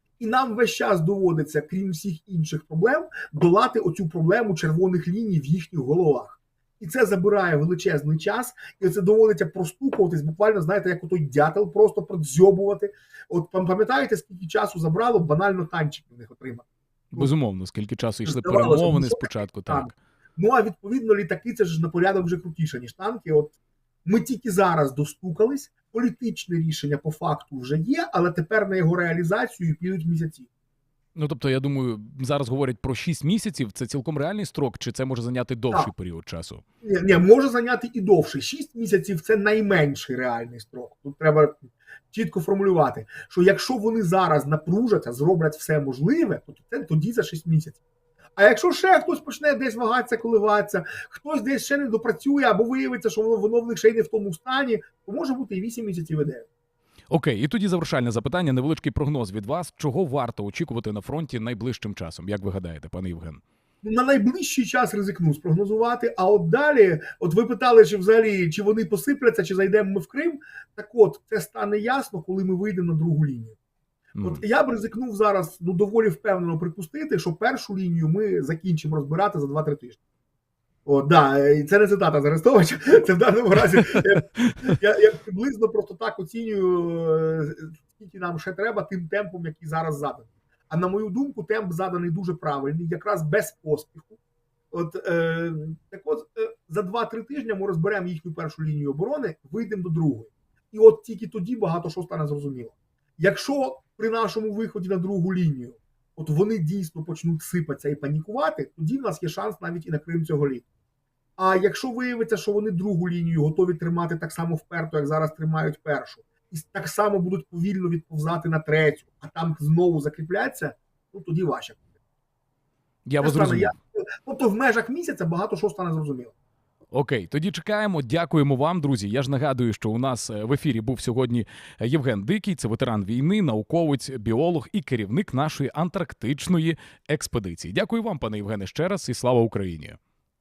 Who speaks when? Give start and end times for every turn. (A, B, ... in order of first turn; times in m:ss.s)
0:00.2-0:17.3 A
0:17.1-0:19.9 B
0:18.2-0:30.5 A
0:31.2-0:36.6 B
0:36.8-0:47.8 A
0:48.4-0:56.5 A
0:57.1-1:03.4 B
1:03.8-1:13.6 A
1:14.2-1:14.4 B
1:14.2-1:20.0 A
1:20.8-1:34.2 A
1:34.7-1:50.6 A
1:51.4-2:01.8 A
2:03.1-2:03.7 B
2:03.2-2:06.3 A
2:06.9-2:20.0 B